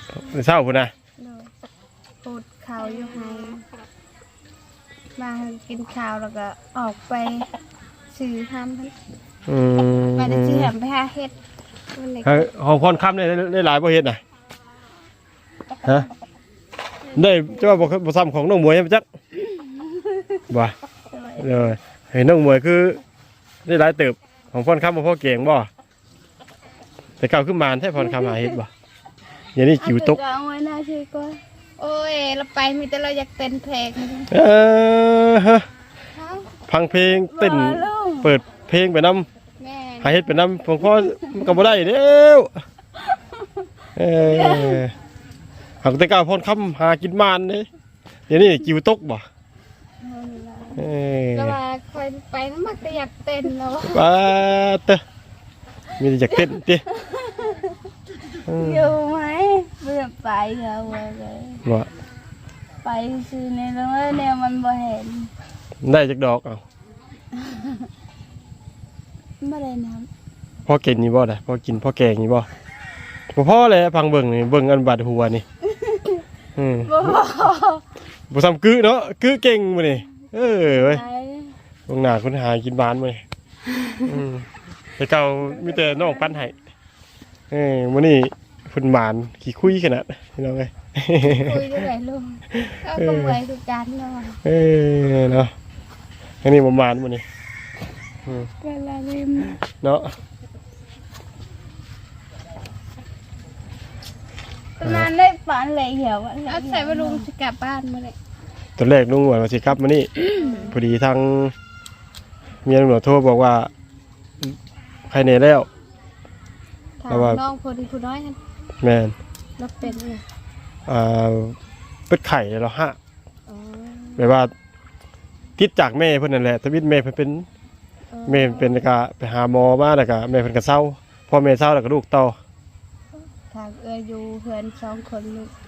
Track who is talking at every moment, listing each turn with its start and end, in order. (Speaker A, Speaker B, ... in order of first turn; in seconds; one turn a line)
Speaker A: 0.2-0.9
Speaker B: 1.2-1.5
Speaker B: 2.2-3.6
Speaker B: 5.2-7.5
Speaker B: 8.1-8.9
Speaker A: 9.5-10.7
Speaker B: 10.2-11.3
Speaker B: 11.9-12.5
Speaker A: 12.2-14.2
Speaker A: 17.1-19.0
Speaker A: 20.5-20.8
Speaker C: 21.1-21.4
Speaker A: 21.4-23.0
Speaker A: 23.7-25.7
Speaker A: 27.2-28.7
Speaker A: 29.6-30.2
Speaker C: 29.8-31.4
Speaker B: 31.8-34.3
Speaker A: 34.3-35.7
Speaker B: 36.1-36.5
Speaker A: 36.7-39.3
Speaker C: 37.3-38.3
Speaker B: 39.6-41.5
Speaker A: 40.0-42.5
Speaker A: 44.0-44.9
Speaker A: 45.8-47.7
Speaker A: 48.3-49.3
Speaker B: 50.0-50.8
Speaker A: 50.8-51.6
Speaker B: 51.4-54.1
Speaker A: 53.9-55.0
Speaker A: 56.0-56.9
Speaker C: 57.3-57.6
Speaker A: 58.5-58.9
Speaker C: 58.5-61.6
Speaker C: 62.8-65.3
Speaker A: 65.8-66.6
Speaker C: 69.4-70.1
Speaker A: 70.7-72.5
Speaker A: 73.3-75.5
Speaker A: 76.6-77.2
Speaker C: 76.9-77.8
Speaker A: 78.3-81.0
Speaker C: 80.7-81.5
Speaker A: 81.9-83.2
Speaker A: 84.0-84.5
Speaker A: 85.0-86.5
Speaker B: 85.6-86.4
Speaker A: 87.5-91.8
Speaker B: 91.3-94.4
Speaker A: 92.5-93.4
Speaker A: 94.4-95.5
Speaker A: 96.4-97.2
Speaker B: 98.6-99.6
Speaker A: 99.8-100.1
Speaker C: 104.8-107.3
Speaker A: 104.8-105.1
Speaker B: 106.5-108.2
Speaker A: 108.8-110.1
Speaker B: 110.3-110.7
Speaker A: 110.7-111.5
Speaker A: 112.7-113.7
Speaker A: 115.1-115.7
Speaker B: 117.0-118.4
Speaker A: 117.1-117.4
Speaker A: 118.8-119.2
Speaker B: 119.6-120.2
Speaker A: 120.9-121.6
Speaker A: 122.1-123.0
Speaker B: 123.5-124.3
Speaker A: 124.2-124.5
Speaker A: 125.6-127.5
Speaker B: 128.1-128.8
Speaker A: 128.3-132.4
Speaker B: 133.5-135.5